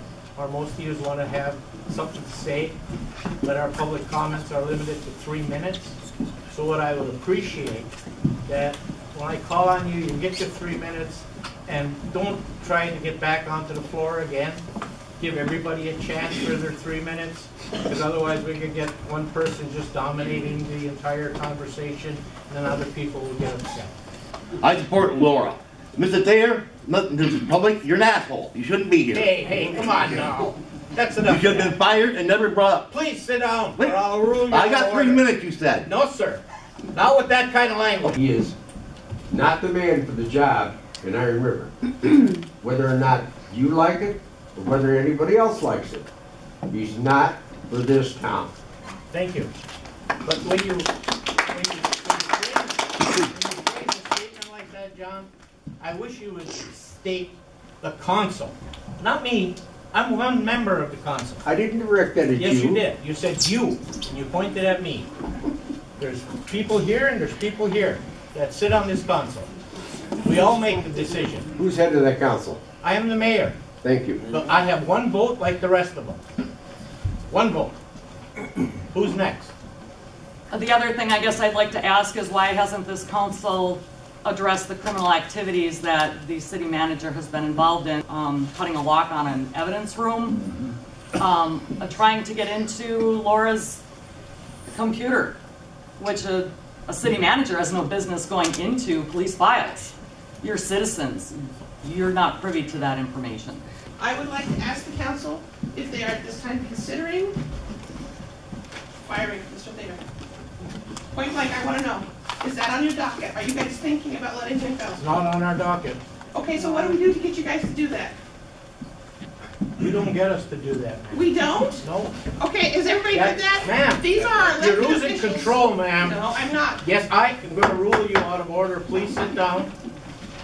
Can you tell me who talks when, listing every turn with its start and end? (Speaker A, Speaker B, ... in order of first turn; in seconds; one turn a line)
Speaker A: 0.3-2.7
Speaker A: 3.4-6.0
Speaker A: 6.5-7.9
Speaker A: 8.5-14.6
Speaker A: 15.2-23.9
Speaker B: 24.6-30.5
Speaker A: 29.1-31.8
Speaker B: 31.2-32.9
Speaker A: 32.9-35.2
Speaker B: 33.8-35.9
Speaker A: 35.8-36.4
Speaker A: 36.9-38.1
Speaker C: 38.1-38.5
Speaker C: 39.3-46.0
Speaker C: 46.7-48.5
Speaker A: 49.1-49.5
Speaker A: 50.2-61.4
Speaker C: 61.4-62.8
Speaker A: 62.3-65.1
Speaker A: 66.0-69.5
Speaker A: 70.2-71.5
Speaker C: 71.6-72.6
Speaker A: 72.8-73.6
Speaker C: 73.8-74.2
Speaker A: 74.2-76.2
Speaker A: 77.2-77.7
Speaker A: 78.9-79.5
Speaker D: 80.5-90.6
Speaker D: 91.2-93.8
Speaker D: 94.7-95.3
Speaker D: 96.0-103.6
Speaker E: 104.0-107.3
Speaker E: 109.0-110.0
Speaker E: 111.1-115.0
Speaker A: 114.9-116.0
Speaker E: 116.3-118.1
Speaker A: 116.6-116.9
Speaker A: 119.8-122.1
Speaker E: 121.1-121.8
Speaker E: 122.4-126.8
Speaker A: 123.1-129.7